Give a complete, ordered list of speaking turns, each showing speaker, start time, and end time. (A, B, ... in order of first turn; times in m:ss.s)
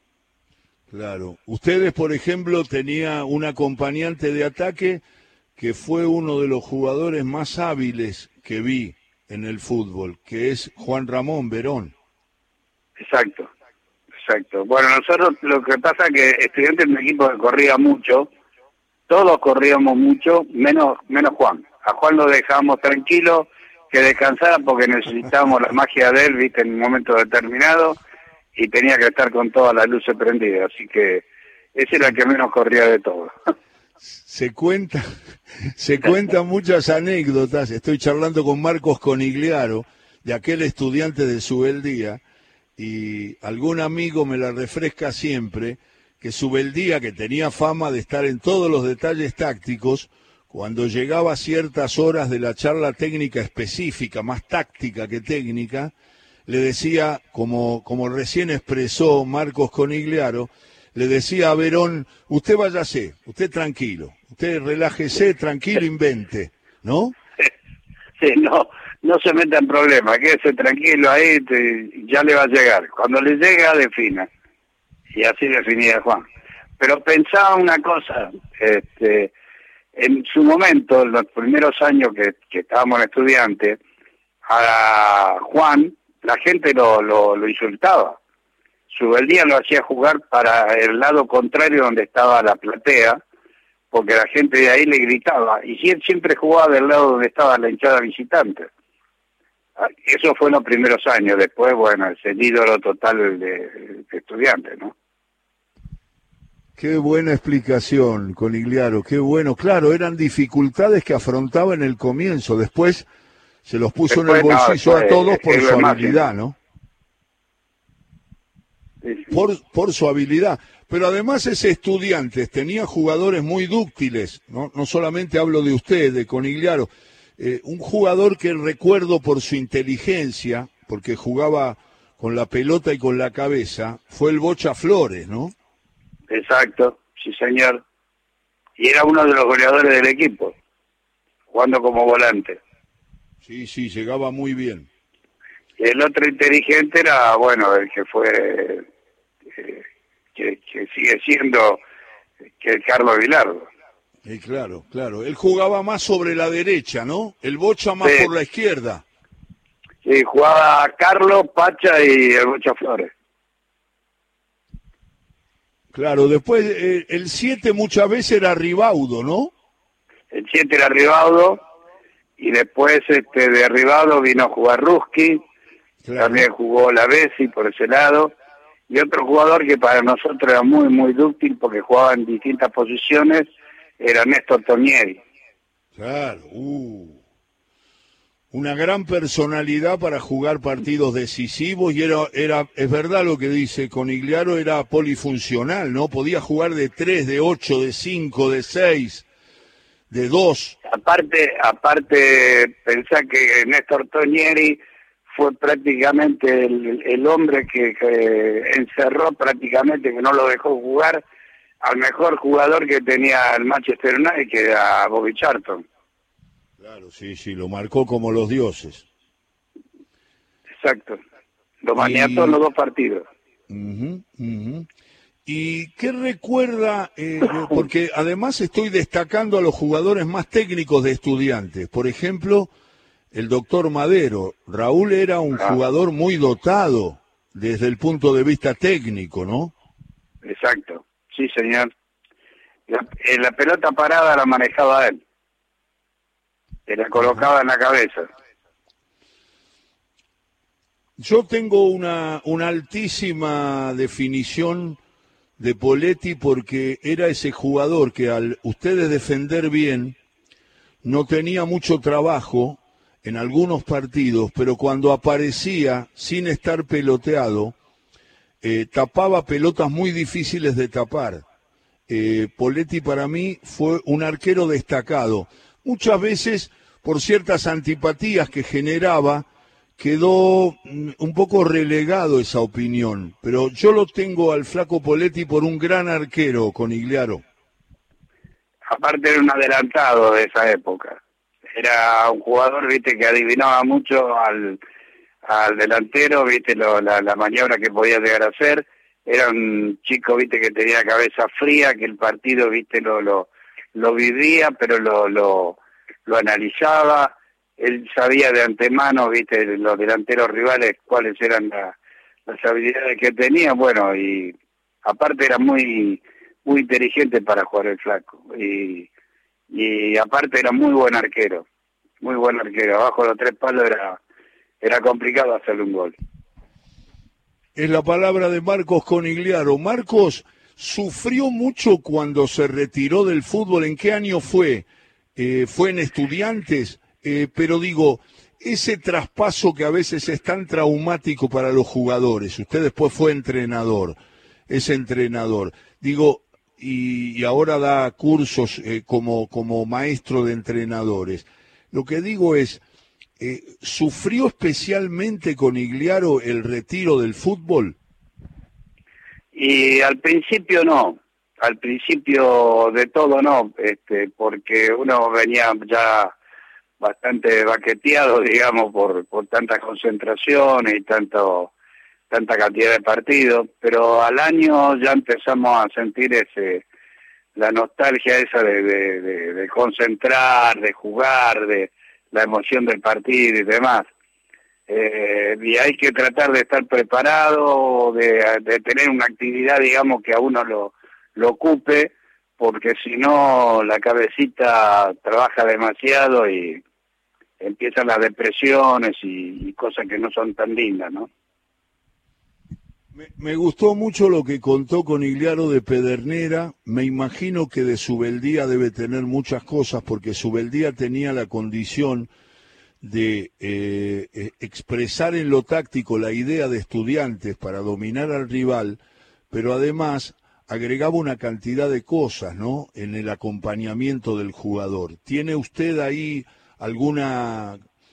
0:00.9-0:05.0 A
0:05.6-0:11.9 A
0:13.0-0:13.5 B
0:14.2-0:18.3 B
0:19.1-0:28.0 B
0:28.5-0:33.5 B
0:34.0-0:42.2 A
0:42.8-0:55.9 A
0:56.4-1:07.1 A
1:08.2-1:14.3 B
1:15.1-1:16.2 B
1:16.8-1:19.3 B
1:20.0-1:23.8 B
1:24.5-1:28.2 B
1:28.9-1:33.2 B
1:33.9-1:38.7 B
1:39.8-1:44.9 B
1:46.8-1:53.0 A
1:53.6-1:56.6 A
1:54.1-1:56.2 B
1:59.0-1:59.3 B
1:59.3-2:15.5 A
2:16.3-2:17.8 B
2:18.8-2:20.6 B
2:21.5-2:22.6 B
2:23.4-2:24.9 A
2:25.8-2:28.8 B
2:29.6-2:31.8 B
2:32.6-2:33.7 B
2:34.2-2:39.0 A
2:38.0-2:38.3 B
2:40.0-2:43.1 B
2:45.9-2:49.5 A
2:50.3-2:51.6 B
2:52.4-2:55.4 B
2:56.0-2:56.4 A
2:56.2-2:58.3 B
2:58.9-3:03.5 B
3:04.0-3:05.2 B
3:06.0-3:07.2 A
3:08.5-3:19.2 A
3:20.1-3:20.8 A
3:20.8-3:31.2 B
3:31.8-3:35.8 B
3:36.8-3:39.0 A
3:40.8-3:41.2 B
3:41.8-3:43.2 B
3:42.0-3:42.6 A
3:43.7-3:44.9 A
3:45.4-3:52.7 A
3:53.3-3:59.7 A
4:00.4-4:01.9 B
4:02.9-4:05.2 B
4:06.9-4:08.3 B
4:07.2-4:07.4 A
4:11.2-4:15.0 A
4:15.6-4:20.2 A
4:21.0-4:27.8 A
4:28.6-4:31.4 A
4:32.1-4:39.5 A
4:40.0-4:47.4 A
4:48.9-4:51.2 B
4:51.7-4:54.8 B
4:55.4-5:11.9 B
5:12.4-5:19.1 B
5:19.7-5:21.6 B
5:22.2-5:24.2 B
5:24.8-5:26.2 B
5:27.7-5:44.2 A
5:44.7-5:52.8 A
5:53.4-5:58.0 A
5:59.5-6:06.3 B
6:07.0-6:11.7 B
6:12.3-6:16.8 B
6:17.6-6:24.1 B
6:24.9-6:36.8 B
6:37.6-6:41.3 B
6:43.1-6:52.3 A
6:53.0-6:59.0 A
6:59.5-7:07.8 A